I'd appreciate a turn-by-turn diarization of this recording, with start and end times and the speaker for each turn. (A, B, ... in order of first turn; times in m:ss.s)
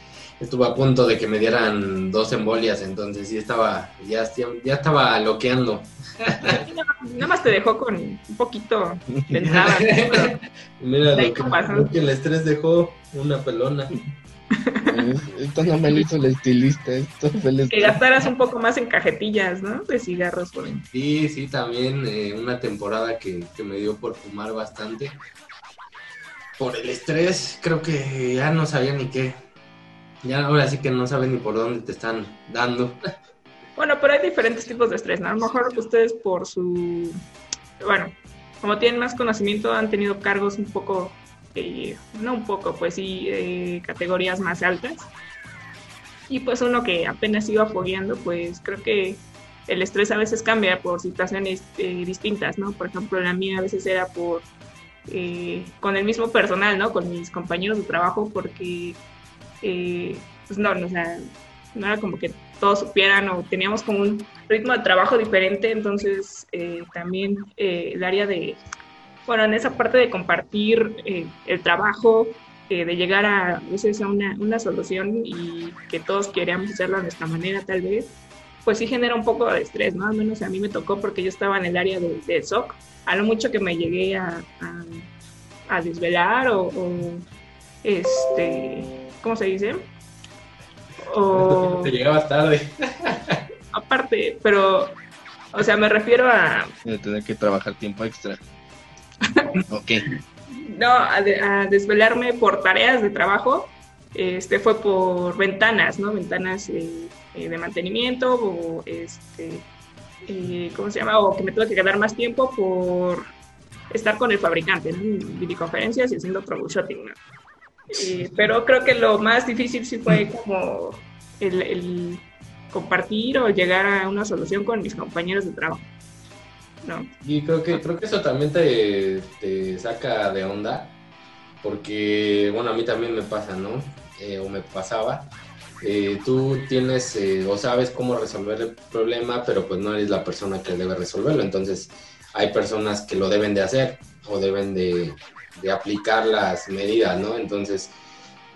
0:00.4-0:06.6 A
0:06.5-0:10.3 B
0:09.4-0:13.9 A
0:11.2-0:11.9 B
0:14.5-0:15.0 B
0:14.8-0:18.0 C
0:17.7-0:20.8 B
0:20.9-0:25.2 A
0:26.6-0:29.4 A
0:30.2-0:33.0 A
0:33.8-0:37.2 B
0:37.8-0:45.1 B
0:46.3-0:54.5 B
0:55.1-0:59.0 B
0:59.6-1:01.2 B
1:01.7-1:08.6 B
1:09.3-1:18.1 B
1:18.6-1:25.1 B
1:25.7-1:27.2 B
1:27.8-1:29.9 B
1:31.0-1:31.9 B
1:31.3-1:33.4 A
1:33.7-1:35.0 B
1:35.5-1:36.7 B
1:36.8-1:38.4 C
1:39.7-1:40.0 C
1:40.5-1:49.7 B
1:50.3-1:53.3 B
1:53.9-1:57.2 B
1:57.9-2:05.9 B
2:06.8-2:07.1 B
2:07.2-2:11.0 A
2:11.6-2:28.0 A